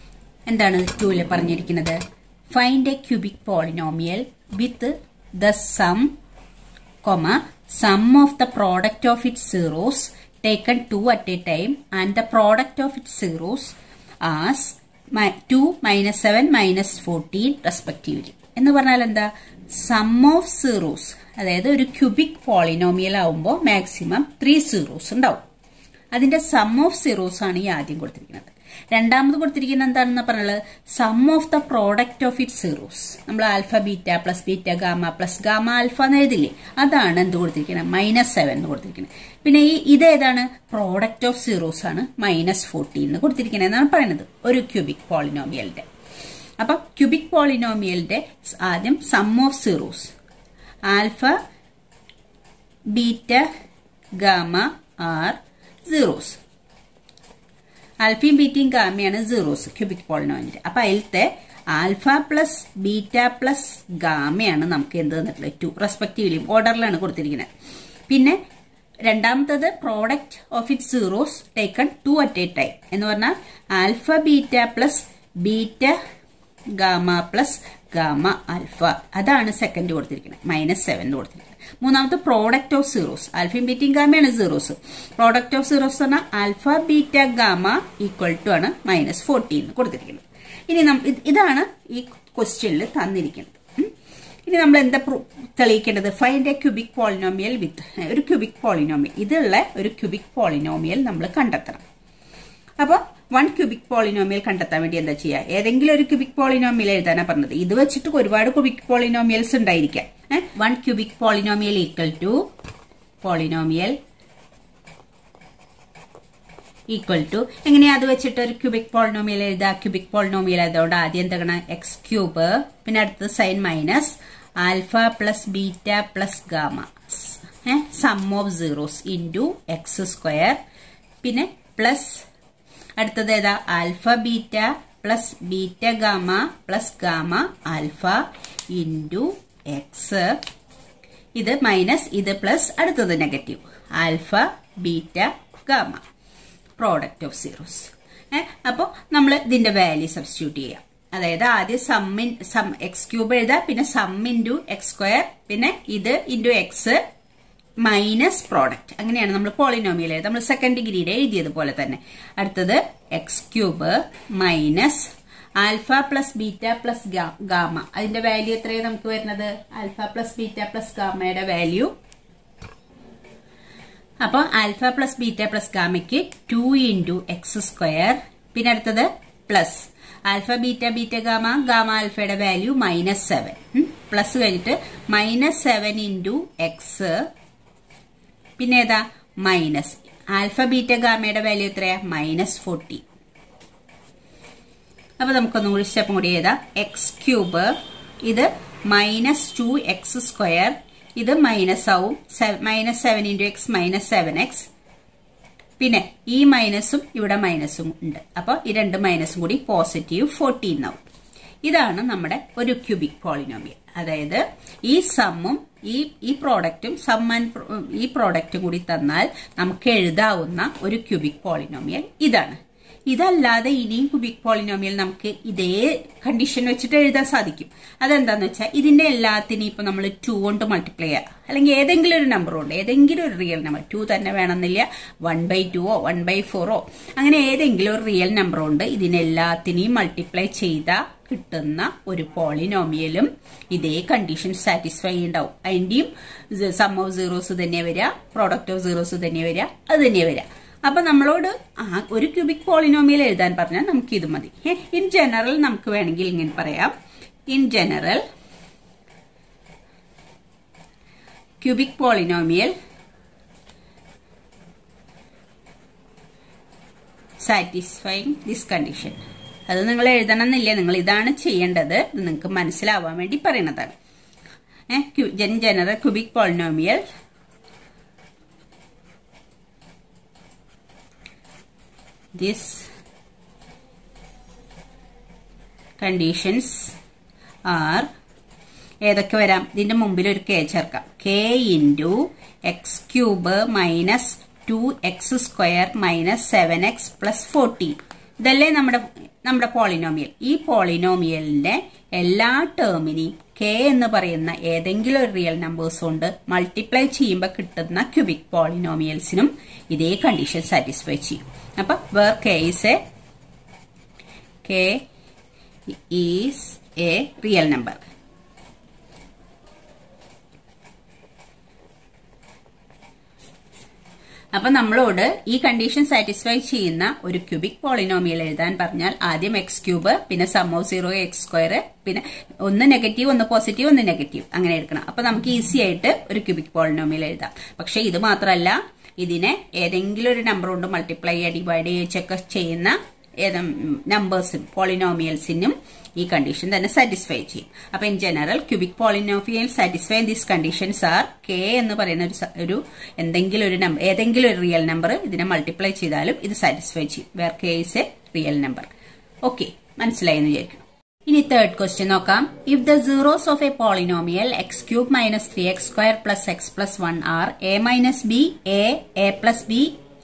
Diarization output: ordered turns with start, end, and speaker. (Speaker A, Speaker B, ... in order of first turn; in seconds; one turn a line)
Speaker A: 0.5-2.0
Speaker A: 2.5-6.1
Speaker A: 7.0-25.4
Speaker A: 26.1-45.9
Speaker A: 46.6-50.1
Speaker A: 50.9-51.4
Speaker A: 52.9-53.5
Speaker A: 54.2-56.4
Speaker A: 58.0-67.5
Speaker A: 68.1-68.4
Speaker A: 69.0-76.0
Speaker A: 76.8-93.9
Speaker A: 94.5-101.8
Speaker A: 102.8-112.4
Speaker A: 113.2-114.0
Speaker A: 116.9-130.6
Speaker A: 131.2-132.2
Speaker A: 133.0-140.4
Speaker A: 141.3-146.0
Speaker A: 146.8-157.0
Speaker A: 157.8-171.9
Speaker A: 174.2-187.3
Speaker A: 188.6-193.0
Speaker A: 195.2-204.7
Speaker A: 205.8-211.0
Speaker A: 211.6-222.6
Speaker A: 223.1-256.9
Speaker A: 257.5-258.2
Speaker A: 261.6-262.7
Speaker A: 267.4-273.9
Speaker A: 274.9-277.0
Speaker A: 282.3-282.9
Speaker A: 286.0-286.9
Speaker A: 287.6-288.1
Speaker A: 289.0-313.0
Speaker A: 314.6-315.0
Speaker A: 315.9-318.0
Speaker A: 324.5-358.9
Speaker A: 359.4-369.9